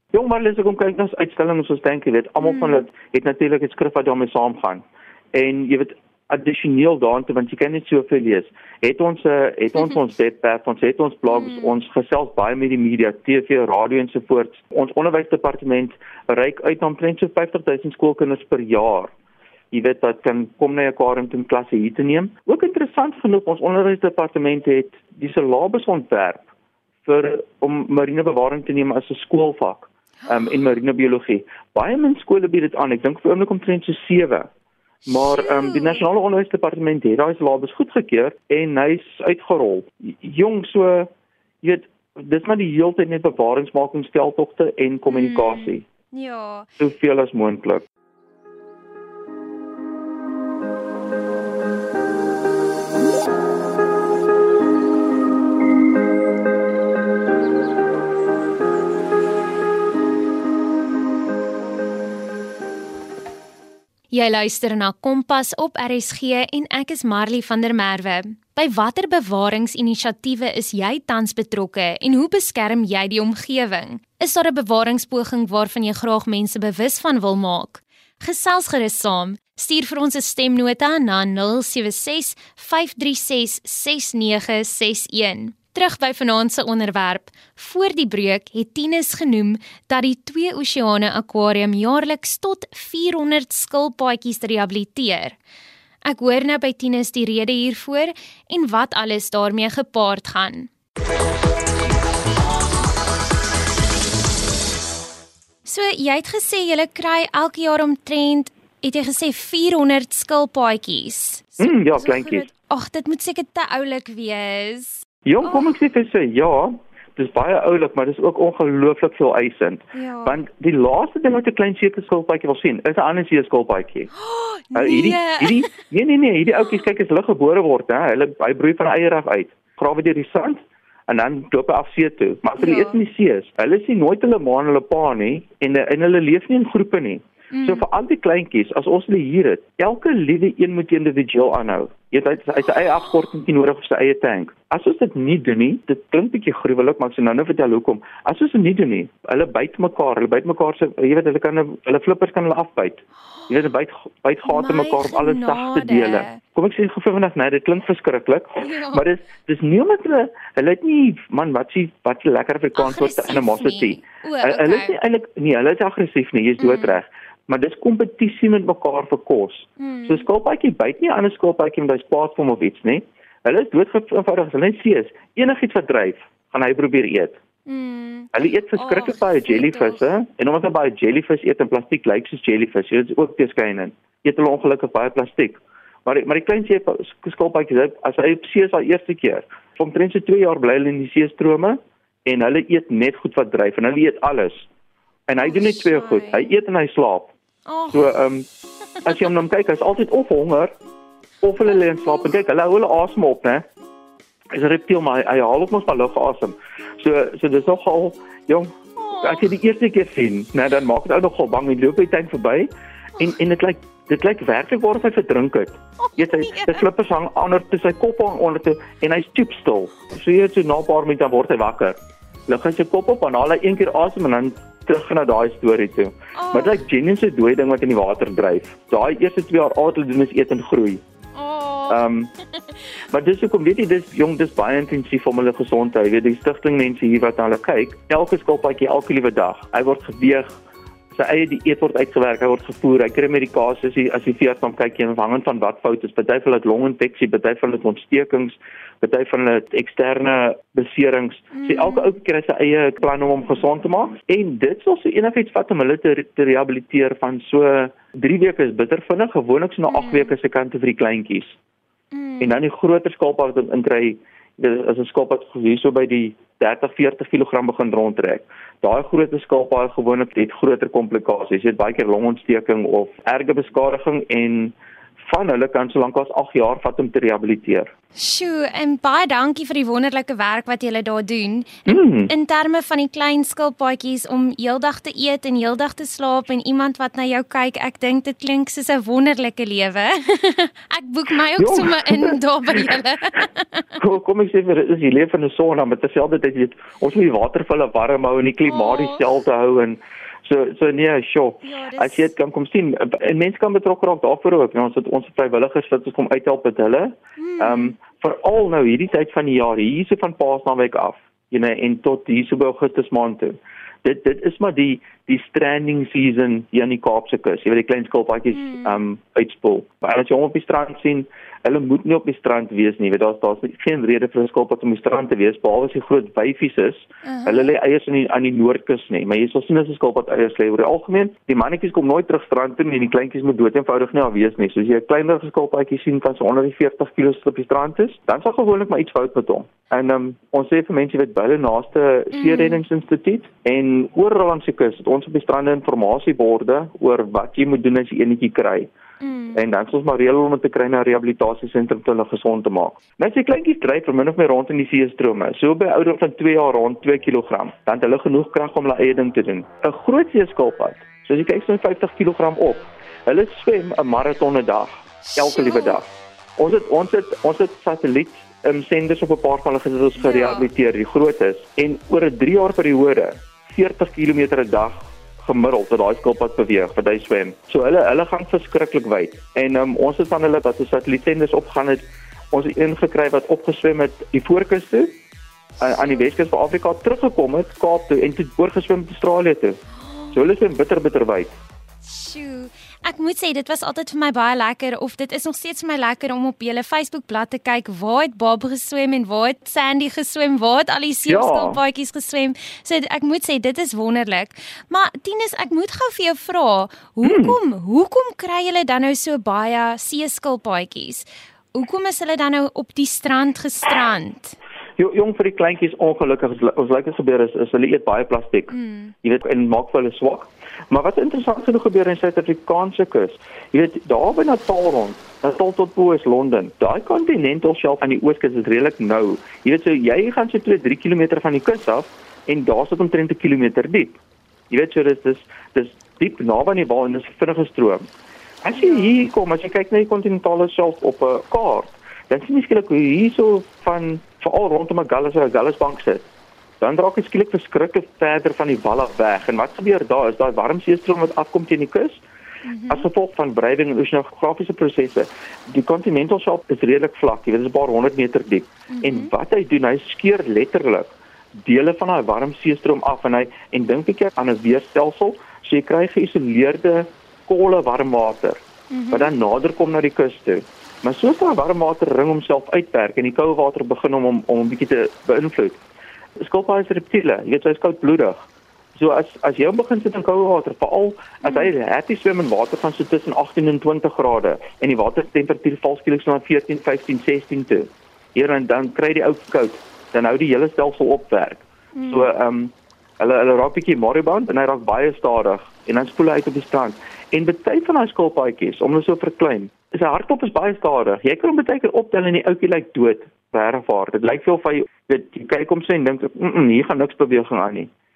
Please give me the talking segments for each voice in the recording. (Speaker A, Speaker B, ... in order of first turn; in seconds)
Speaker A: 0.1-19.1, 19.7-26.5, 27.0-34.5, 35.0-41.1, 41.6-45.8, 46.8-47.8, 111.6-112.5, 115.2-124.1, 124.7-177.4, 178.3-194.7, 195.3-197.3, 197.9-198.5, 199.0-200.7, 201.4-203.6, 204.5-231.0, 231.9-232.3, 233.1-240.5, 241.1-261.6, 262.4-277.9, 281.9-282.3, 291.6-293.0, 294.0-348.9, 349.5-366.1, 366.6-385.1, 385.8-389.8, 390.3-391.6, 401.3-401.8, 407.2-407.6, 415.0-434.2, 434.7-438.1, 438.6-446.2, 446.8-452.2, 452.9-475.8, 476.4-507.9
Speaker B: 2.4-2.7, 35.0-36.0, 45.1-46.8, 64.1-95.4, 96.0-100.7, 105.6-115.7, 119.9-120.4, 124.2-125.8, 132.6-133.0, 137.5-137.8, 154.4-156.4, 158.6-159.1, 162.7-165.0, 166.6-167.0, 169.8-170.2, 177.7-180.0, 195.4-196.6, 197.7-198.1, 201.8-202.3, 208.9-209.4, 216.0-216.8, 226.3-226.8, 231.3-232.1, 251.5-252.1, 259.9-260.3, 262.1-262.6, 278.1-293.9, 298.6-299.2, 301.6-302.3, 307.4-308.0, 318.5-319.0, 327.2-327.7, 342.3-342.8, 349.2-349.6, 365.2-366.0, 370.2-370.7, 390.0-390.4, 392.0-414.6, 418.7-419.1, 438.7-439.1, 452.6-453.1, 458.9-459.3, 468.9-469.3, 481.4-481.7, 491.9-492.3